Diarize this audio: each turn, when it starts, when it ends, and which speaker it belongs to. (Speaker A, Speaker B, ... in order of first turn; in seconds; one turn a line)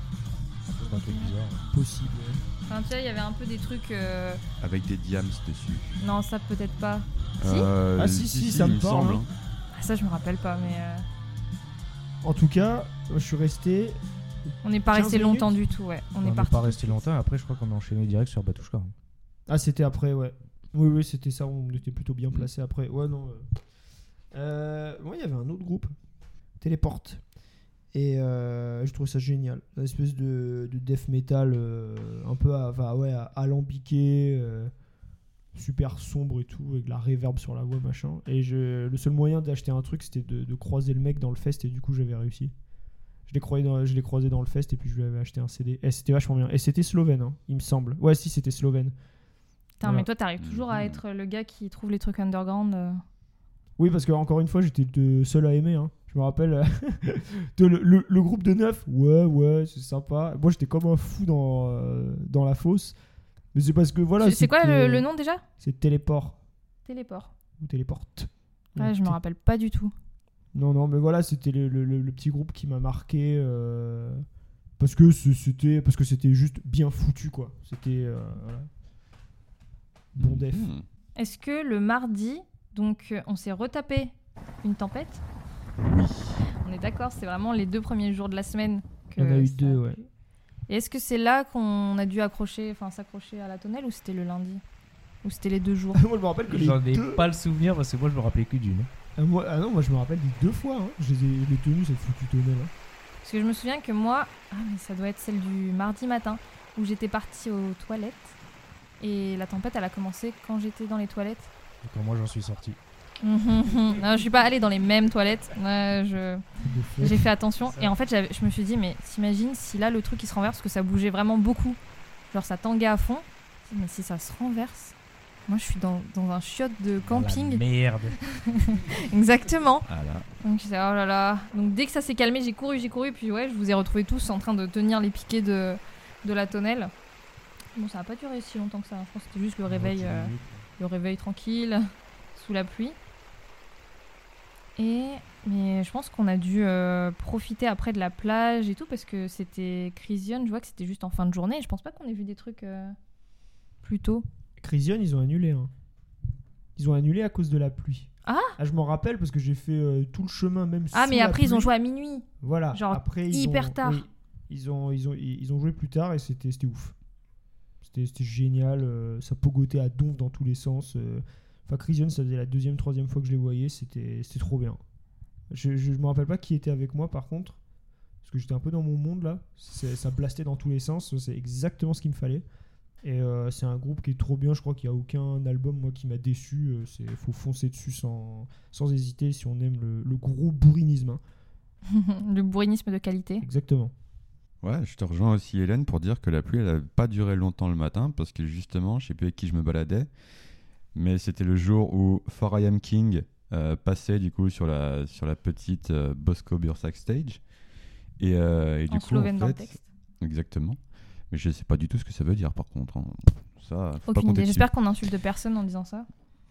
Speaker A: 0.7-1.6
Speaker B: 0.8-1.3
Speaker C: 1.7-2.4
Speaker B: 2.7-4.4
Speaker D: 4.6-6.0
Speaker B: 6.0-7.7
Speaker D: 7.4-9.3
Speaker C: 8.0-9.2
Speaker B: 9.7-11.0
Speaker C: 12.2-14.0
Speaker B: 14.6-17.0
Speaker C: 14.9-15.5
Speaker A: 16.2-18.9
Speaker C: 19.5-23.4
Speaker C: 24.3-25.9
Speaker C: 26.6-27.2
Speaker C: 27.9-34.7
Speaker C: 35.5-42.5
Speaker C: 43.3-48.9
Speaker B: 49.8-53.0
Speaker D: 50.4-51.0
Speaker C: 53.8-63.0
Speaker C: 63.5-65.0
Speaker B: 64.2-65.4
Speaker C: 65.6-66.4
Speaker B: 66.8-67.3
Speaker C: 67.6-69.2
Speaker B: 68.8-69.9
Speaker C: 70.5-74.2
Speaker C: 74.8-78.7
Speaker C: 80.1-80.7
Speaker D: 80.2-80.8
Speaker B: 81.2-85.2
Speaker D: 85.8-86.4
Speaker B: 86.5-90.1
Speaker C: 89.2-90.0
Speaker B: 90.7-94.6
Speaker B: 95.2-96.0
Speaker C: 95.9-97.3
Speaker A: 96.5-98.9
Speaker C: 99.2-102.7
Speaker B: 103.2-108.3
Speaker B: 109.0-111.5
Speaker A: 111.8-112.8
Speaker B: 113.2-116.4
Speaker C: 116.6-117.2
Speaker B: 117.0-121.8
Speaker A: 117.6-117.9
Speaker B: 122.3-124.9
Speaker B: 125.5-127.6
Speaker A: 127.0-128.2
Speaker B: 128.3-129.8
Speaker D: 129.9-130.3
Speaker B: 130.4-136.9
Speaker B: 137.7-142.9
Speaker A: 139.7-140.7
Speaker B: 144.8-152.9
Speaker B: 153.8-154.2
Speaker C: 154.6-155.7
Speaker C: 156.8-161.7
Speaker B: 158.2-158.6
Speaker B: 160.9-164.0
Speaker C: 162.4-166.9
Speaker C: 167.8-174.8
Speaker C: 175.5-177.6
Speaker C: 178.2-182.4
Speaker C: 183.0-191.2
Speaker B: 191.9-193.4
Speaker C: 193.4-193.9
Speaker D: 194.6-200.1
Speaker D: 200.9-207.4
Speaker D: 208.2-210.8
Speaker B: 208.9-209.8
Speaker D: 211.3-214.7
Speaker B: 214.1-216.1